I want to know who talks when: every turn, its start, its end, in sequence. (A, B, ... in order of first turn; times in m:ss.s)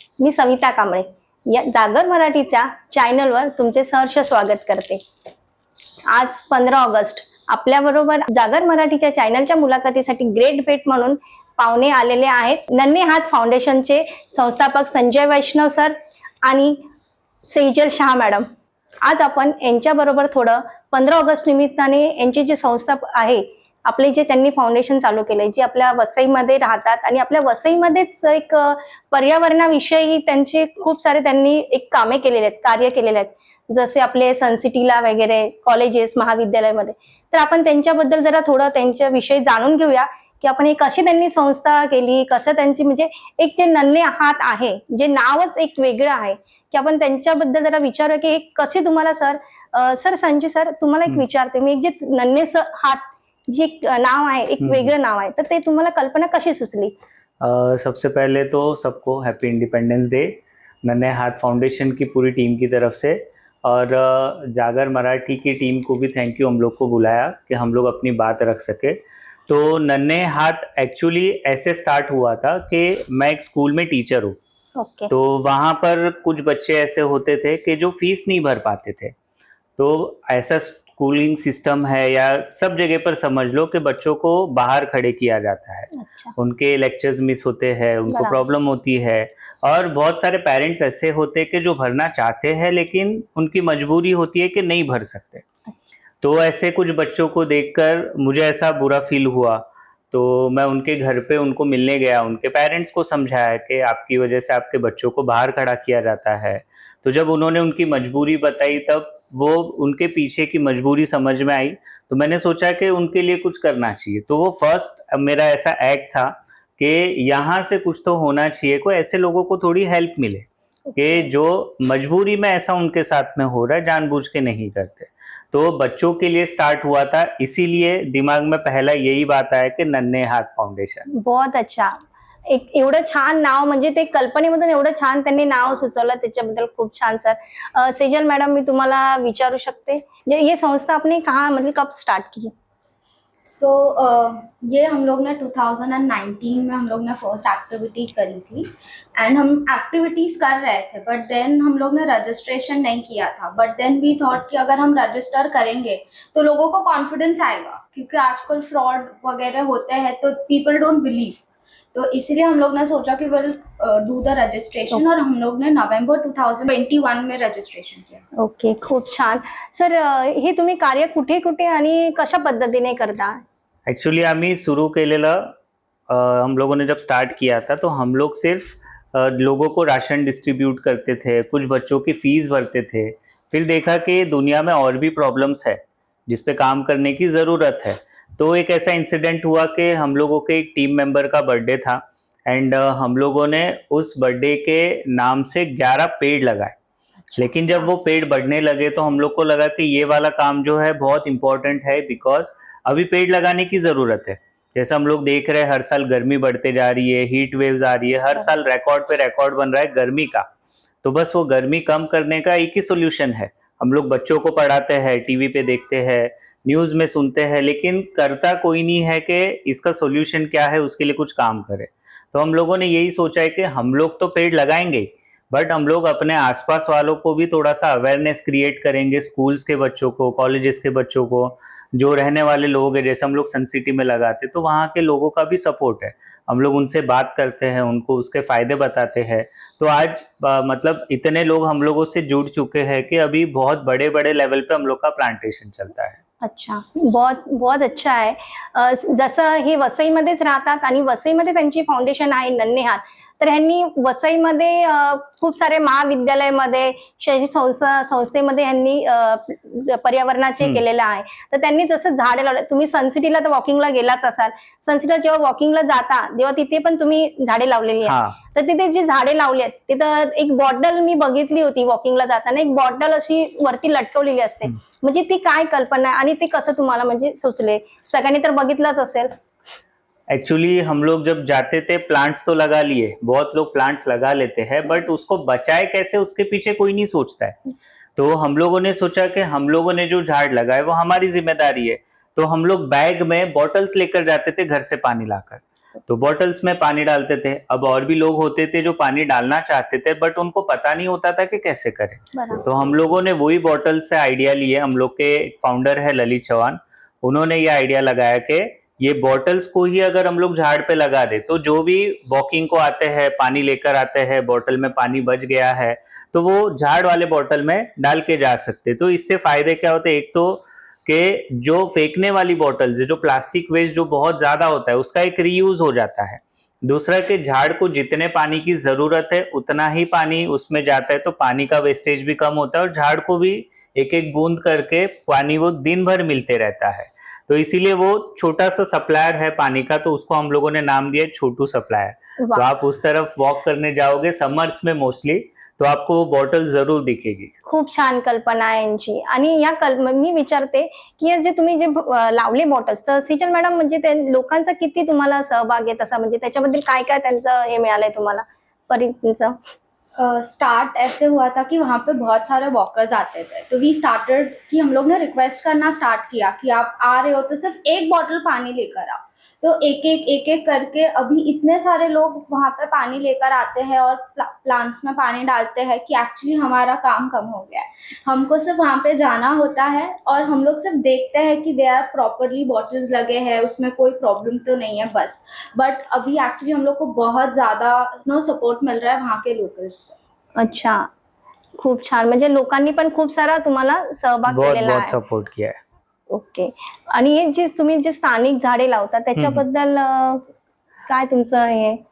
0:00.2-0:05.0 A
0:06.1-0:16.8 A
0:17.4-0:18.5 A
0:19.0-0:57.0 A
0:54.6-0:54.9 B
0:57.4-1:14.4 B
1:14.8-1:15.1 A
1:15.1-1:19.2 B
1:19.8-1:35.4 B
1:26.0-1:26.3 A
1:28.1-1:28.4 A
1:36.2-2:11.1 B
2:11.2-2:12.0 A
2:12.5-2:22.5 A
2:23.4-2:41.4 C
2:41.9-2:48.2 C
2:48.4-2:53.4 A
2:53.9-2:55.6 B
2:56.1-3:16.8 B
3:17.3-3:17.9 A
3:17.4-3:30.5 B
3:31.0-4:06.2 B
4:06.4-4:39.3 A
4:28.0-4:28.4 B
4:40.3-4:47.6 B
4:48.2-5:47.5 B
5:02.4-5:02.6 A
5:42.4-5:42.7 A
5:47.7-5:59.6 A
6:00.2-6:30.2 C
6:30.6-6:31.1 A
6:31.8-6:35.2 A
6:34.5-6:35.8 B
6:36.3-6:40.5 A
6:39.4-6:39.6 B
6:41.1-6:42.0 A